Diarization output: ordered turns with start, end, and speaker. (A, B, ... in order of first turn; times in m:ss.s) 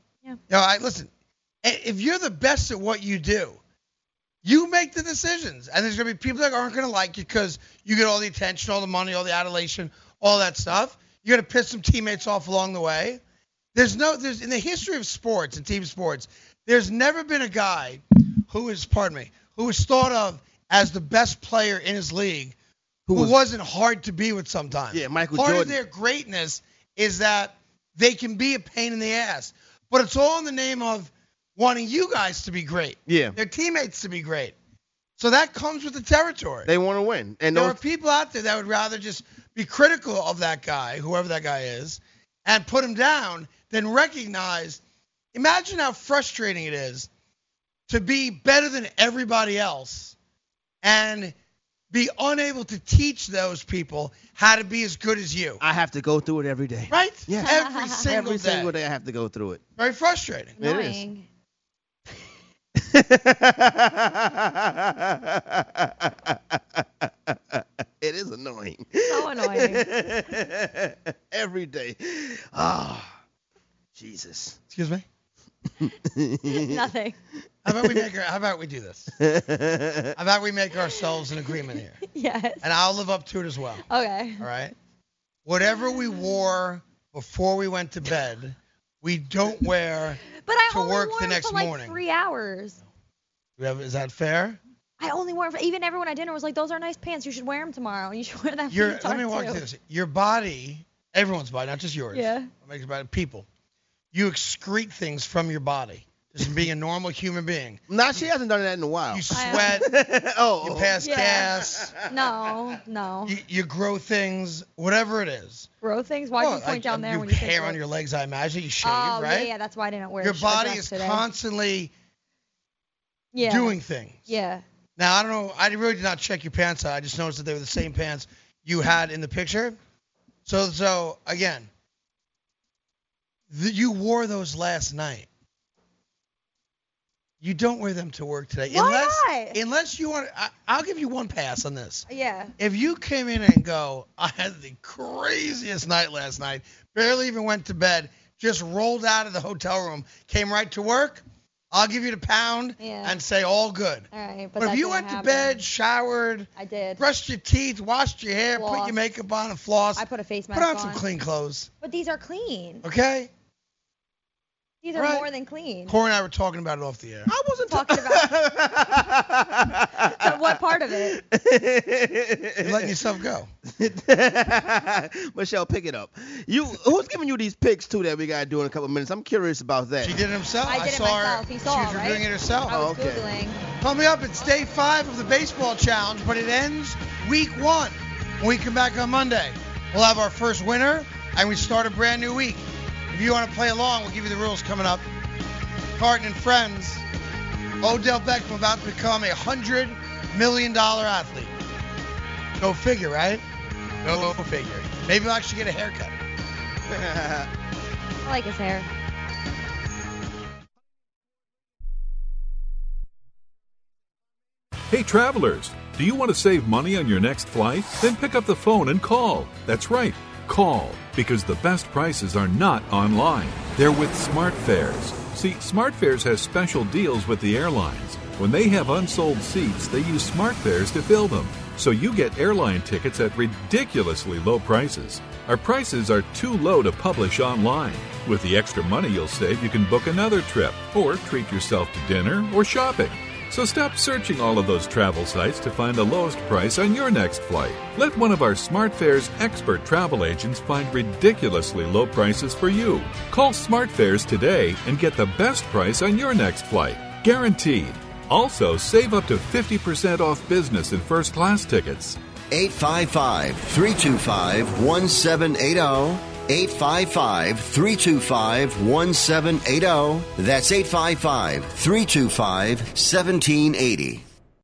0:00.5-0:01.1 A
0:01.6-0:03.6 A
0:04.4-0:13.2 A
0:13.7-0:22.5 A
0:23.1-0:23.3 B
0:23.1-0:34.5 A
0:24.9-0:25.8 B
0:33.1-0:33.4 B
0:35.2-0:36.7 A
0:36.6-0:37.8 B
0:37.5-0:44.8 A
0:45.3-0:47.1 A
0:47.9-0:50.1 A
0:50.8-0:51.3 A
0:51.9-0:55.6 A
0:55.6-0:59.6 B
0:56.9-0:58.7 A
0:57.4-0:58.0 C
0:59.8-1:00.6 A
1:00.6-1:01.2 C
1:00.6-1:01.0 B
1:02.8-1:13.1 B
1:09.0-1:09.8 C
1:14.0-1:14.6 B
1:14.7-1:15.0 A
1:15.7-1:16.8 B
1:16.4-1:17.2 C
1:17.6-1:19.1 A
1:17.7-1:18.0 B
1:19.2-1:20.1 B
1:20.2-1:22.0 A
1:22.0-1:22.6 C
1:22.6-1:23.8 A
1:23.8-1:24.5 C
1:24.4-1:24.7 A
1:25.4-1:32.0 A
1:25.7-1:26.3 C
1:30.4-1:32.8 C
1:33.6-1:34.6 A
1:35.0-1:39.6 C
1:38.7-1:43.4 A
1:42.1-1:42.5 C
1:44.1-1:47.8 A
1:47.9-1:51.0 B
1:49.1-1:49.9 A
1:49.3-1:49.8 C
1:50.6-1:51.9 A
1:51.0-1:51.5 C
1:52.0-1:53.4 C
1:53.2-1:55.7 A
1:55.8-1:57.8 C
1:56.4-1:59.5 A
1:58.8-2:01.2 C
2:00.2-2:01.9 A
2:03.3-2:04.6 C
2:03.4-2:04.3 A
2:05.0-2:09.8 A
2:10.4-2:11.7 A
2:13.5-2:15.3 A
2:17.4-2:22.1 A
2:18.7-2:19.6 C
2:22.1-2:22.5 C
2:22.6-2:34.1 A
2:32.8-2:33.2 C
2:34.1-2:35.6 C
2:34.6-2:41.7 A
2:36.6-2:37.0 C
2:38.6-2:38.9 C
2:40.0-2:41.0 C
2:41.8-2:42.8 C
2:42.8-2:43.3 A
2:44.8-2:45.9 C
2:44.9-2:45.2 A
2:45.9-2:47.3 A
2:47.3-2:53.0 B
2:47.7-2:48.4 C
2:50.0-2:51.2 C
2:52.6-2:53.5 A
2:53.6-3:00.2 B
3:00.0-3:02.7 A
3:00.6-3:03.6 C
3:02.7-3:03.2 B
3:03.8-3:15.0 A
3:16.0-3:17.0 A
3:17.8-3:21.5 A
3:22.6-3:23.4 A
3:24.0-3:26.1 A
3:26.9-3:27.5 B
3:28.2-3:28.9 C
3:34.9-4:22.2 D
4:22.5-4:34.2 E